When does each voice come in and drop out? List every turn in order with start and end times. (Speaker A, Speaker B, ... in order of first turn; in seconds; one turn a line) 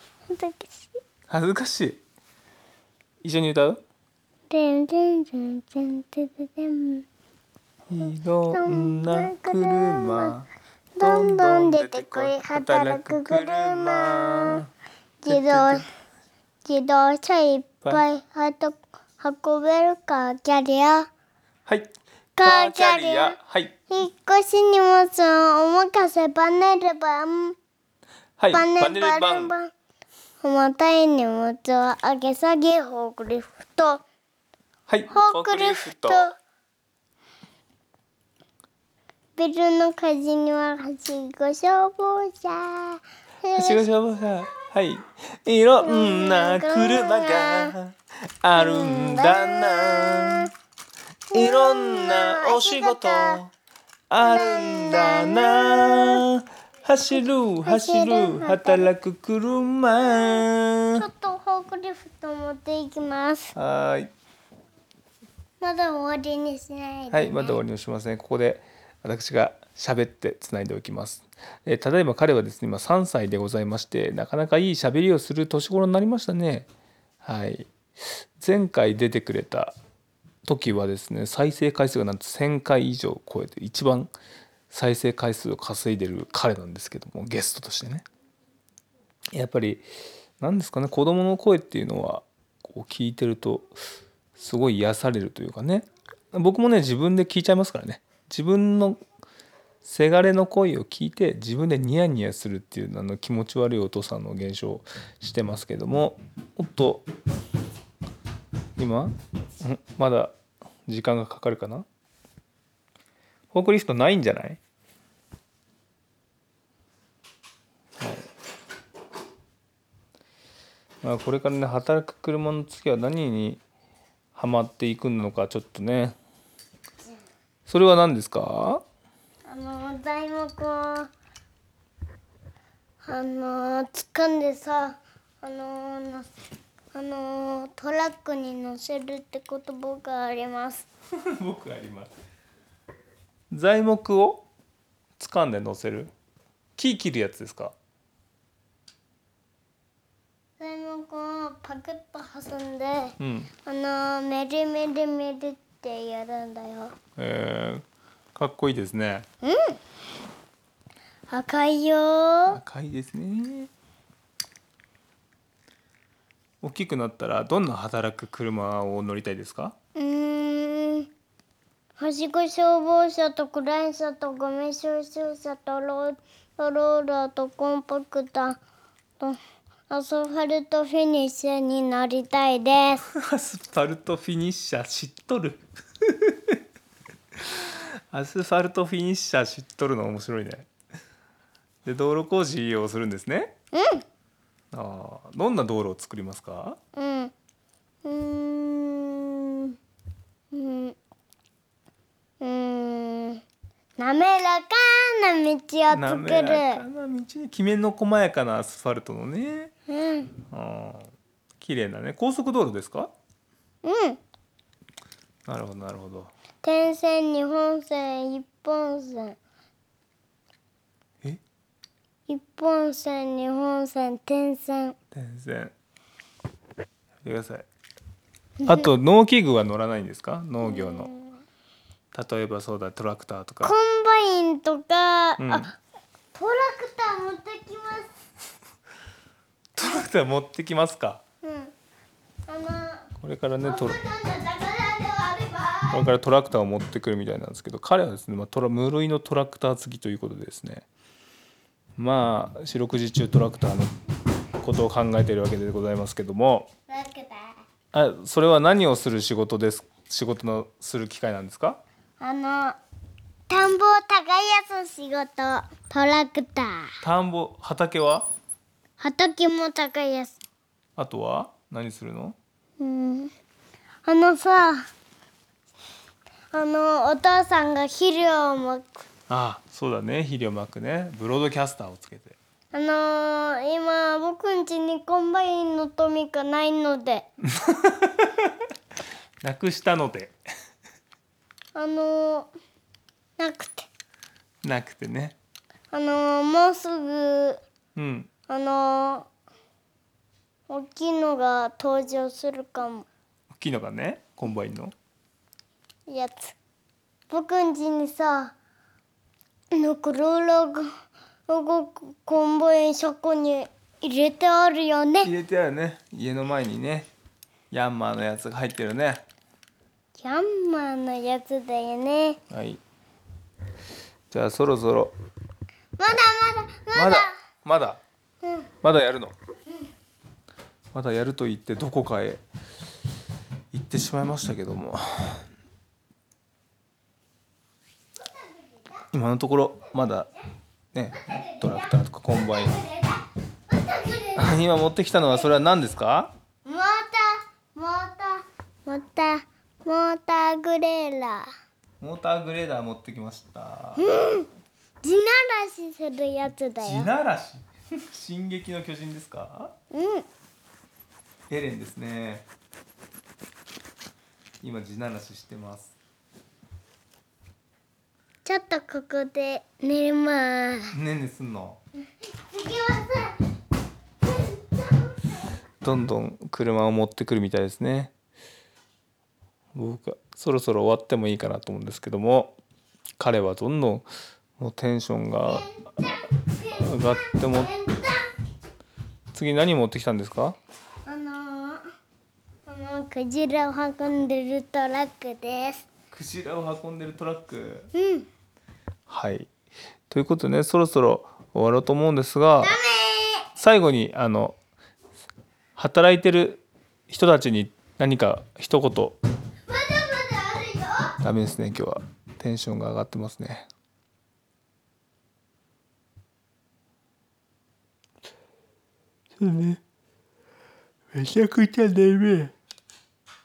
Speaker A: 0.3-0.9
Speaker B: 1.3-2.0
Speaker B: 3.2-3.8
Speaker A: 4.5-7.0
Speaker B: 7.9-10.5
Speaker A: 8.5-10.3
Speaker A: 10.9-14.6
Speaker B: 11.0-14.7
Speaker A: 15.2-15.8
Speaker B: 15.3-15.8
Speaker A: 16.6-21.1
Speaker B: 21.6-23.7
Speaker A: 22.4-23.4
Speaker A: 23.9-27.6
Speaker B: 28.4-29.5
Speaker A: 28.5-29.7
Speaker A: 30.4-34.0
Speaker B: 34.9-36.3
Speaker A: 35.1-36.3
Speaker A: 39.4-43.8
Speaker B: 43.5-50.5
Speaker A: 45.8-47.7
Speaker A: 48.5-50.5
Speaker A: 51.3-53.4
Speaker B: 51.3-53.5
Speaker B: 54.1-61.0
Speaker A: 54.2-56.2
Speaker A: 57.6-58.9
Speaker A: 61.0-63.5
Speaker B: 63.5-64.1
Speaker A: 65.6-67.6
Speaker B: 67.1-76.7
Speaker B: 77.2-79.7
Speaker B: 80.5-84.1
Speaker B: 84.7-88.0
Speaker B: 89.3-89.8
Speaker B: 90.4-93.7
Speaker B: 94.3-99.0
Speaker B: 99.8-107.1
Speaker B: 108.8-110.3
Speaker B: 110.9-111.8
Speaker B: 113.5-114.6
Speaker B: 118.0-118.2
Speaker B: 121.0-123.6
Speaker B: 124.3-126.2
Speaker B: 127.7-128.8
Speaker A: 129.5-131.1
Speaker A: 133.0-136.3
Speaker A: 136.9-140.9
Speaker B: 141.3-142.1
Speaker B: 143.5-144.4
Speaker B: 145.2-146.1
Speaker B: 146.8-147.7
Speaker A: 150.6-156.9
Speaker B: 153.2-153.5
Speaker B: 157.2-159.2
Speaker A: 159.4-159.8
Speaker A: 161.3-162.6
Speaker B: 162.5-163.7
Speaker B: 166.6-169.7
Speaker A: 169.9-171.1
Speaker A: 172.0-178.6
Speaker A: 179.9-183.0
Speaker B: 183.1-186.6
Speaker B: 187.4-190.7
Speaker B: 191.8-193.5
Speaker A: 193.7-194.0
Speaker B: 194.7-196.8
Speaker A: 196.9-197.3
Speaker A: 198.0-199.8
Speaker A: 200.5-200.9
Speaker A: 202.4-203.4
Speaker A: 204.0-206.8
Speaker B: 205.9-209.7
Speaker A: 209.9-210.3
Speaker B: 210.5-213.1
Speaker A: 213.8-214.2
Speaker B: 215.5-216.3
Speaker A: 216.6-219.4
Speaker A: 222.3-224.9
Speaker B: 225.1-225.7
Speaker B: 227.2-227.7
Speaker B: 228.6-231.1
Speaker A: 230.6-231.4
Speaker B: 232.1-233.7
Speaker A: 233.6-235.7
Speaker B: 235.4-235.7
Speaker A: 236.3-238.1
Speaker B: 239.7-241.2
Speaker A: 241.4-241.7
Speaker A: 242.5-243.1
Speaker B: 243.2-244.0
Speaker A: 243.6-246.1
Speaker B: 245.9-250.8
Speaker B: 252.0-253.9
Speaker B: 254.6-256.7
Speaker A: 256.9-257.6
Speaker B: 257.9-261.8
Speaker A: 262.2-262.8
Speaker A: 263.5-266.9
Speaker B: 267.0-268.3
Speaker A: 269.0-270.4
Speaker B: 271.0-272.4
Speaker A: 272.8-273.3
Speaker A: 274.0-274.8
Speaker A: 276.5-279.0
Speaker B: 279.3-282.4
Speaker A: 282.7-287.3
Speaker B: 287.5-288.5
Speaker B: 289.4-290.3
Speaker A: 291.7-292.5
Speaker A: 293.4-293.9
Speaker B: 294.6-295.4
Speaker A: 295.9-297.6
Speaker B: 297.9-298.3
Speaker A: 298.5-299.3
Speaker A: 300.7-303.1
Speaker B: 303.5-304.9
Speaker A: 306.1-306.5
Speaker A: 307.3-308.5
Speaker A: 309.7-310.9
Speaker A: 311.5-315.3
Speaker B: 315.2-317.1
Speaker B: 317.7-319.2
Speaker A: 320.2-322.4
Speaker B: 322.5-322.8
Speaker B: 324.3-325.1
Speaker A: 326.0-327.3
Speaker B: 326.9-328.0
Speaker A: 328.4-328.7
Speaker B: 328.8-329.3
Speaker B: 330.9-332.4
Speaker B: 333.7-335.4
Speaker B: 339.1-340.3
Speaker B: 340.9-342.7
Speaker A: 341.2-344.6
Speaker B: 344.4-346.3
Speaker A: 346.6-351.5
Speaker B: 352.0-354.0
Speaker A: 354.0-354.5
Speaker A: 355.0-357.1
Speaker B: 356.8-359.7
Speaker A: 359.9-360.2
Speaker B: 361.5-362.5
Speaker B: 364.6-365.9
Speaker A: 368.4-370.9
Speaker B: 370.9-371.8
Speaker A: 372.3-373.4
Speaker A: 374.2-375.3
Speaker B: 375.8-378.1
Speaker B: 379.7-382.6
Speaker B: 383.2-384.1
Speaker B: 384.6-385.7
Speaker A: 385.4-388.3
Speaker B: 386.7-387.7
Speaker B: 389.3-390.6
Speaker A: 391.1-391.8
Speaker A: 392.6-395.9
Speaker B: 396.1-397.9
Speaker A: 397.9-398.3
Speaker B: 399.1-399.5
Speaker B: 400.1-402.8
Speaker A: 402.6-403.5
Speaker B: 403.6-404.6
Speaker B: 405.8-409.2
Speaker A: 409.7-411.1
Speaker B: 411.2-413.7
Speaker B: 419.4-419.8
Speaker B: 421.1-422.5